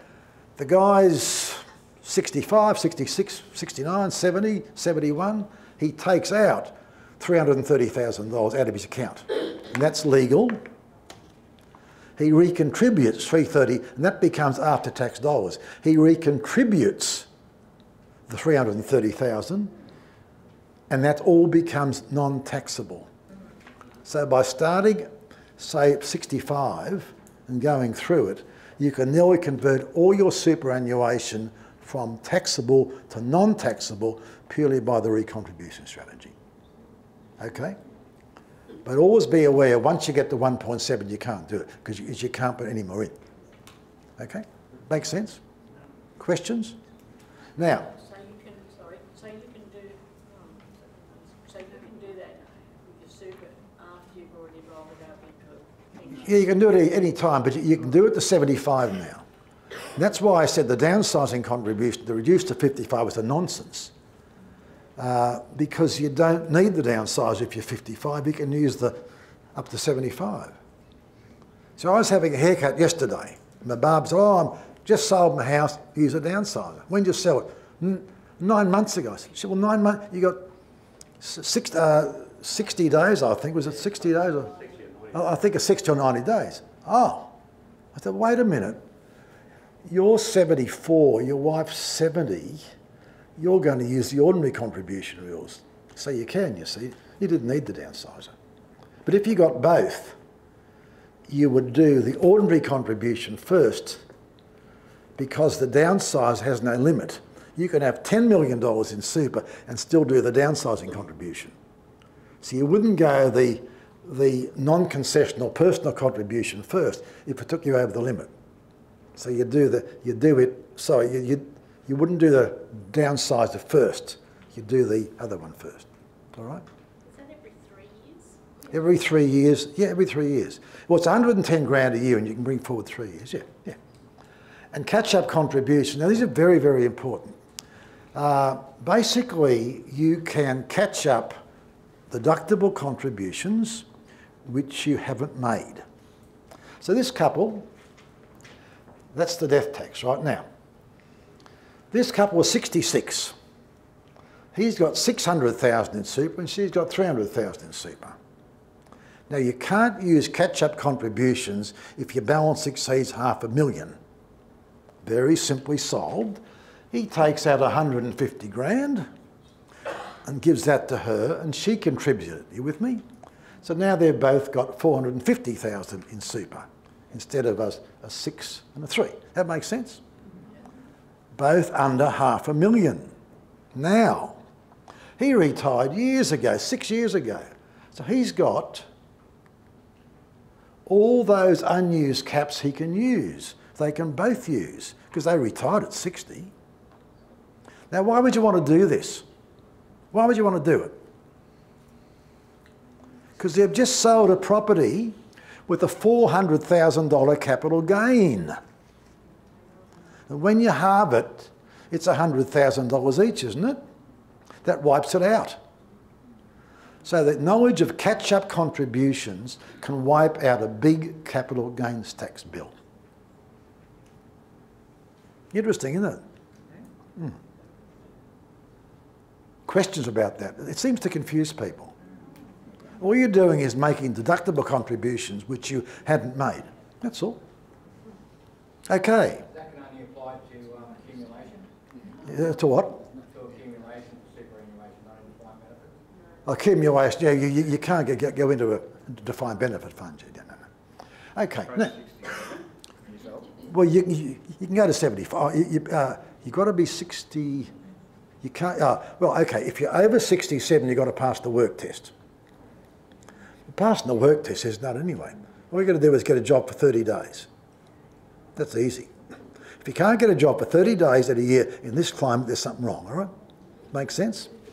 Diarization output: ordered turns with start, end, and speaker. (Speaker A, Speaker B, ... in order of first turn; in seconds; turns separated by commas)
Speaker A: 0.6-10.6, Speaker A: 12.2-17.3, Speaker A: 18.3-19.7, Speaker A: 20.9-23.1, Speaker A: 24.0-36.3, Speaker A: 37.4-37.8, Speaker A: 38.8-43.1, Speaker A: 44.2-45.4, Speaker A: 46.2-46.8, Speaker A: 47.6-47.9, Speaker B: 47.9-56.4, Speaker A: 56.2-59.2, Speaker A: 60.0-63.9, Speaker A: 65.0-69.0, Speaker A: 69.5-70.5, Speaker A: 71.8-80.4, Speaker A: 81.2-84.5, Speaker A: 85.1-87.3, Speaker A: 87.9-88.8, Speaker A: 89.8-92.7, Speaker A: 93.4-98.3, Speaker A: 99.0-100.2, Speaker A: 101.3-104.0, Speaker A: 105.2-111.5, Speaker A: 112.4-118.3, Speaker A: 119.2-126.6, Speaker B: 127.0-128.4, Speaker A: 128.7-133.8, Speaker A: 134.7-137.4, Speaker A: 138.1-141.4, Speaker A: 142.1-143.8, Speaker A: 144.4-145.8, Speaker A: 146.8-147.7, Speaker A: 149.1-150.4, Speaker A: 151.9-153.3, Speaker A: 154.5-158.2, Speaker A: 159.3-164.0, Speaker A: 165.0-166.4, Speaker A: 166.9-169.1, Speaker A: 170.2-173.0, Speaker A: 173.6-180.0, Speaker A: 181.3-183.1, Speaker A: 183.7-184.4, Speaker A: 185.2-188.9, Speaker A: 190.8-196.5, Speaker A: 197.9-199.2, Speaker A: 200.1-200.9, Speaker A: 203.4-205.2, Speaker A: 205.7-208.6, Speaker A: 210.3-213.8, Speaker A: 214.6-215.6, Speaker A: 217.0-222.7, Speaker A: 225.5-226.2, Speaker A: 229.7-231.9, Speaker A: 233.0-237.4, Speaker A: 238.9-239.4, Speaker C: 239.4-242.2, Speaker A: 242.2-243.0, Speaker C: 243.0-245.9, Speaker A: 246.4-250.7, Speaker A: 251.3-251.9, Speaker C: 251.6-253.6, Speaker A: 253.7-257.7, Speaker A: 258.4-262.1, Speaker A: 263.7-267.5, Speaker A: 268.6-269.1, Speaker A: 269.8-273.3, Speaker A: 273.9-274.5